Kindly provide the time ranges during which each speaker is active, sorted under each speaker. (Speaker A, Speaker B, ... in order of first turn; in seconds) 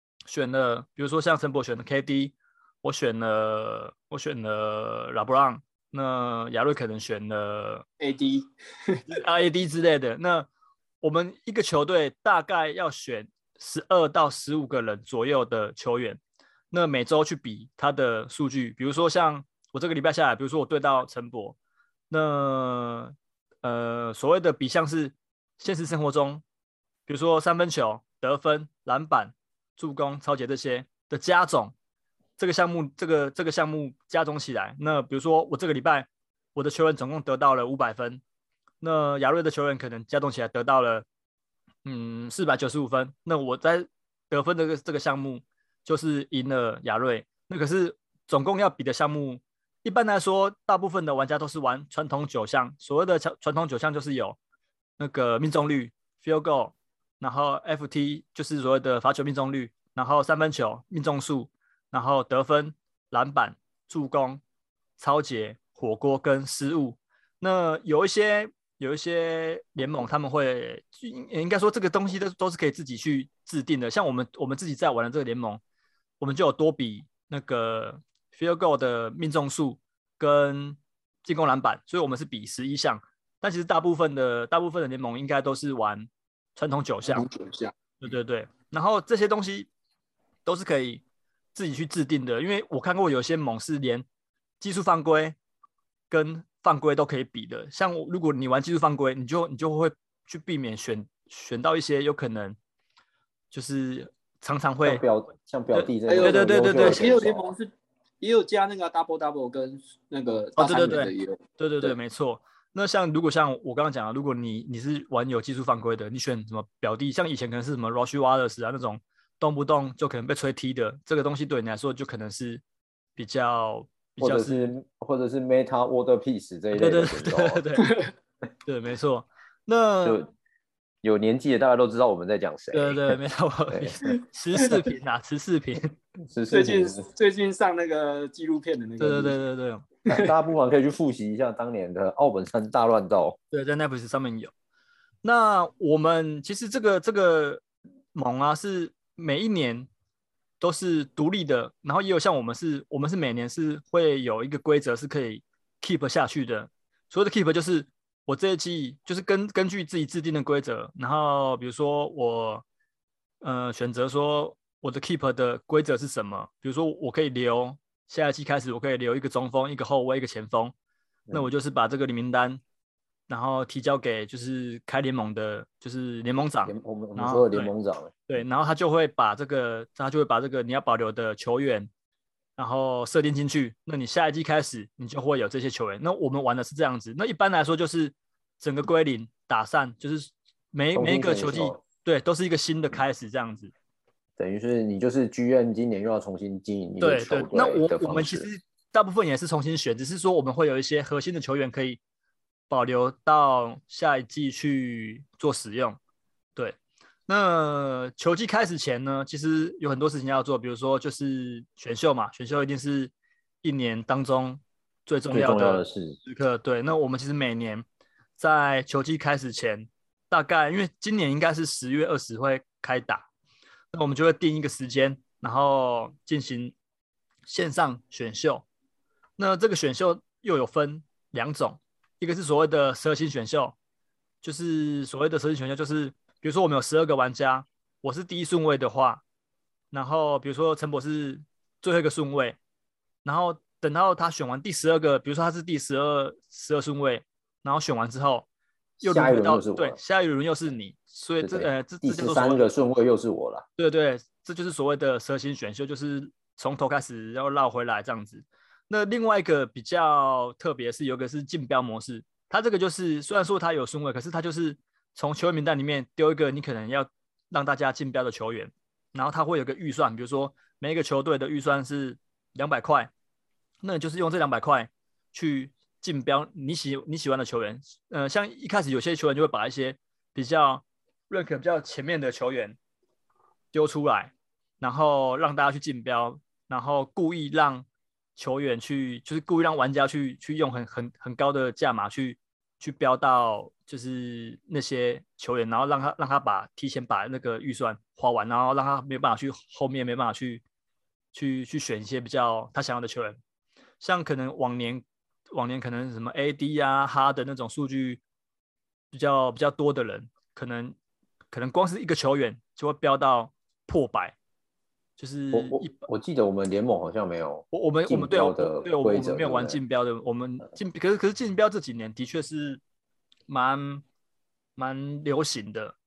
Speaker A: 0.3-7.8, 9.1-10.5, 11.0-21.6, 22.1-26.4, 27.1-31.7, 32.4-38.2, 38.8-41.0, 41.8-54.4, 55.0-64.4, 65.0-75.6, 76.2-87.3, 88.0-89.7, 90.5-91.0, 91.5-94.0, 94.6-95.3, 96.1-102.6, 103.5-105.0, 105.7-107.1, 110.6-122.6, 123.2-124.7, 126.7-127.9, 128.7-130.2, 132.7-135.9, 139.0-139.8, 143.5-144.5, 145.2-147.6, 148.1-149.9, 150.6-162.6, 163.4-170.7, 171.3-172.6, 173.3-177.7, 178.3-181.9, 182.6-193.7, 197.0-202.0, 202.7-206.0, 206.6-213.1, 213.6-217.8, 218.4-223.3, 223.9-226.7, 227.5-228.6, 229.4-233.8, 234.4-239.2, 239.9-242.6, 243.2-248.4, 249.0-252.7, 253.8-273.1, 273.8-282.8, 283.7-287.9, 288.4-300.6, 301.3-303.4, 304.0-308.2, 309.1-310.9, 311.5-314.4, 315.2-316.0, 317.7-322.8, 323.5-324.0, 324.8-325.9
Speaker B: 8.0-9.0, 87.1-87.7, 106.1-107.7, 108.2-111.9, 127.8-128.1, 136.5-139.4, 140.1-140.3
Speaker C: 104.8-107.5, 124.2-127.6, 130.0-130.3, 131.0-133.2, 133.7-134.1, 136.2-137.0, 140.1-143.4, 176.7-178.2, 190.9-191.8, 194.4-198.4, 215.3-216.2, 249.0-250.0, 251.4-253.6, 315.5-319.8